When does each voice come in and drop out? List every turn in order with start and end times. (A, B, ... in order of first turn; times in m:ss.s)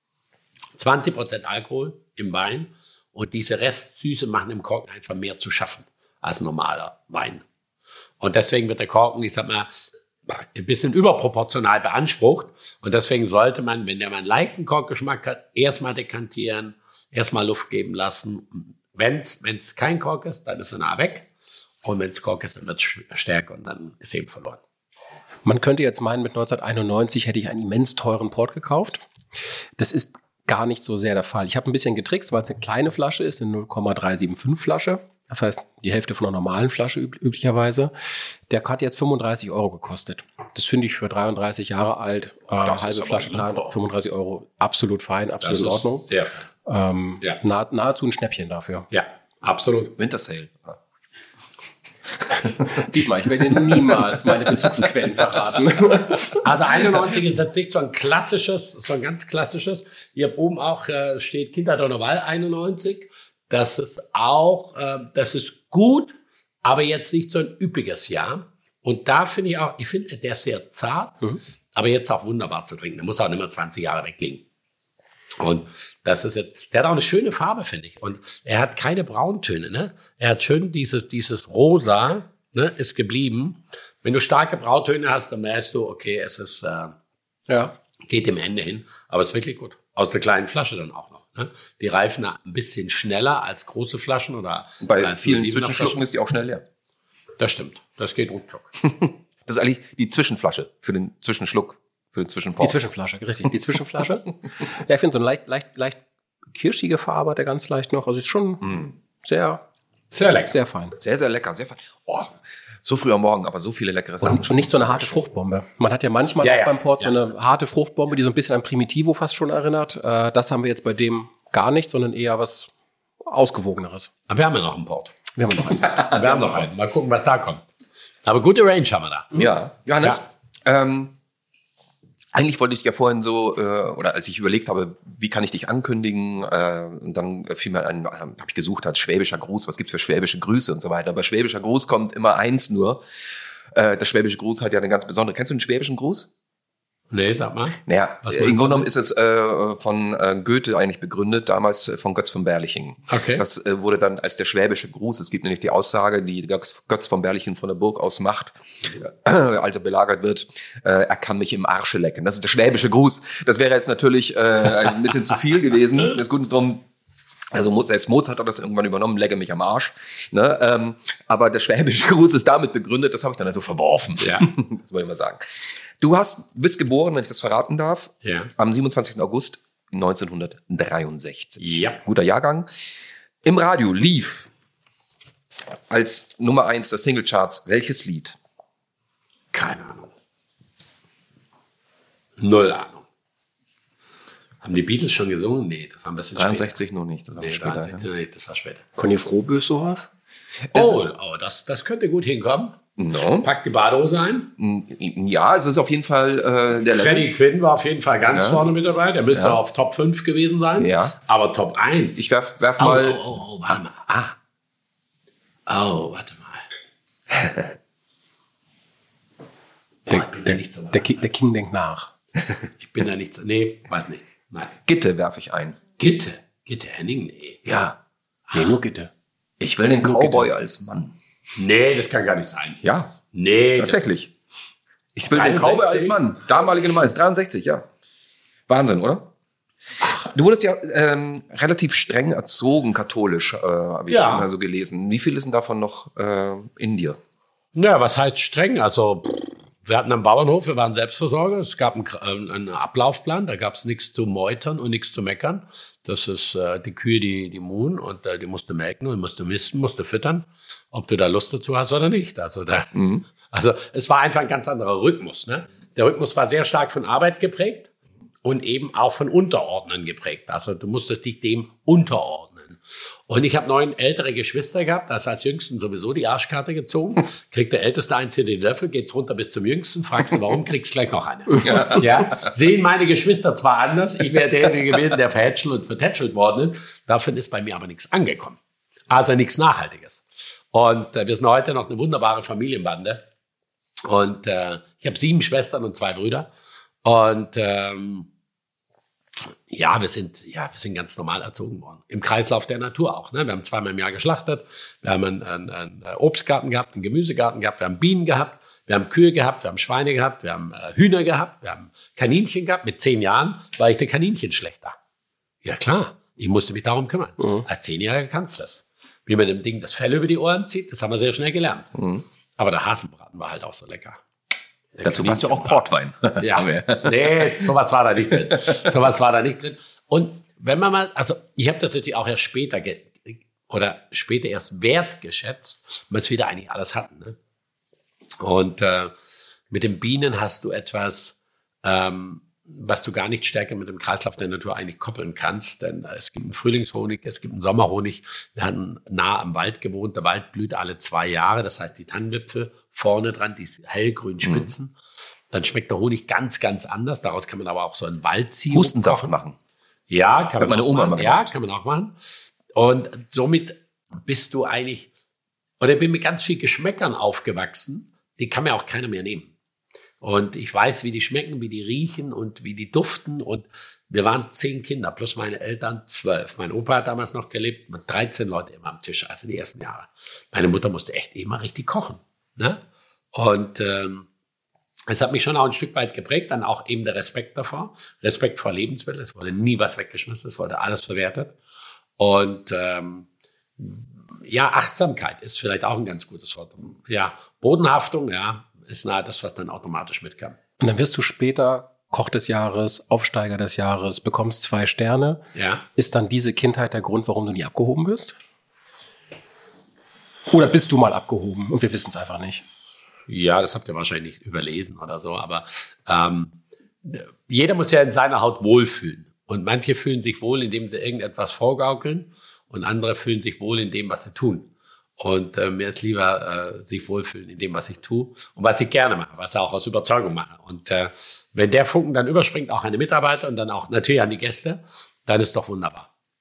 0:00.8-0:07.4 A
0:08.2-0:09.7 A
0:10.3-0:21.3 A
0:21.8-0:24.6 A
0:25.4-0:29.1 B
0:29.8-0:37.9 B
0:38.5-0:46.0 B
0:42.6-0:43.6 C
0:45.4-0:46.5 A
0:46.6-0:48.9 B
0:48.9-0:50.0 A
0:50.0-0:50.8 C
0:52.2-0:52.9 C
0:52.7-0:56.5 B
0:56.4-1:14.4 A
1:15.4-1:27.0 A
1:27.5-1:27.7 B
1:28.1-1:36.0 A
1:34.8-1:36.6 C
1:37.4-1:38.7 A
1:38.8-1:42.8 C
1:42.6-1:46.0 B
1:46.5-1:49.6 B
1:48.6-1:48.9 C
1:50.1-1:50.6 A
1:50.4-1:50.9 B
1:50.9-1:55.2 C
1:54.2-2:04.1 B
1:56.4-1:57.1 A
2:04.3-2:05.2 A
2:05.3-2:06.1 B
2:05.8-2:06.7 C
2:06.0-2:07.6 A
2:08.2-2:09.4 A
2:09.3-2:11.1 C
2:12.3-2:23.0 C
2:23.7-2:26.3 C
2:27.1-2:28.9 A
2:27.8-2:46.8 C
2:33.1-2:33.4 A
2:47.5-3:02.7 C
2:54.2-2:54.5 A
2:58.2-2:58.5 A
3:01.6-3:02.0 A
3:03.4-3:04.5 C
3:05.9-3:08.4 C
3:09.5-3:10.1 A
3:12.4-3:13.0 A
3:14.6-3:16.8 A
3:16.4-3:18.0 C
3:17.4-3:18.8 A
3:19.0-3:20.1 B
3:20.7-3:21.0 C
3:20.7-3:22.8 A
3:23.0-3:23.5 C
3:23.3-3:24.5 A
3:24.6-3:27.3 C
3:26.9-3:32.3 A
3:28.3-3:28.6 C
3:29.3-3:29.6 C
3:30.8-3:31.1 C
3:32.2-3:33.2 C
3:32.8-3:34.1 A
3:35.7-3:36.6 A
3:40.0-3:41.1 A
3:40.1-3:42.1 B
3:42.8-3:44.8 A
3:44.8-3:45.8 C
3:46.0-3:47.6 A
3:47.6-3:47.9 C
3:48.5-3:49.1 B
3:49.6-3:51.1 C
3:50.0-3:50.4 B
3:51.6-3:54.0 A
3:52.8-3:53.2 C
3:53.8-3:54.3 C
3:55.1-3:57.9 C
3:55.3-3:56.2 A
3:58.7-3:59.3 C
4:00.1-4:07.2 C
4:04.1-4:04.5 A
4:07.7-4:27.9 A
4:22.9-4:23.2 C
4:28.4-4:48.6 A
4:41.6-4:42.5 C
4:49.1-4:53.2 A
4:54.0-4:56.5 A
4:57.0-4:58.3 A
4:59.5-5:15.0 A
5:15.6-5:21.9 A
5:17.4-5:17.6 B
5:21.9-5:22.2 C
5:22.6-5:24.2 A
5:25.0-5:25.8 A
5:25.0-5:27.6 C
5:26.4-5:37.4 A
5:28.5-5:28.8 C
5:38.4-5:39.1 A
5:39.7-5:55.0 A
5:54.4-5:54.7 C
5:55.5-5:59.3 A
5:58.7-5:59.6 C
6:00.1-6:02.2 A
6:00.6-6:01.5 C
6:02.7-6:05.1 A
6:05.8-6:09.5 A
6:10.2-6:22.8 A
6:23.3-6:24.3 A
6:25.1-6:31.6 A
6:32.2-6:33.3 A
6:33.8-6:40.6 A
6:40.8-6:48.3 B
6:45.5-6:45.8 A
6:50.5-6:52.6 B
6:53.3-7:16.1 A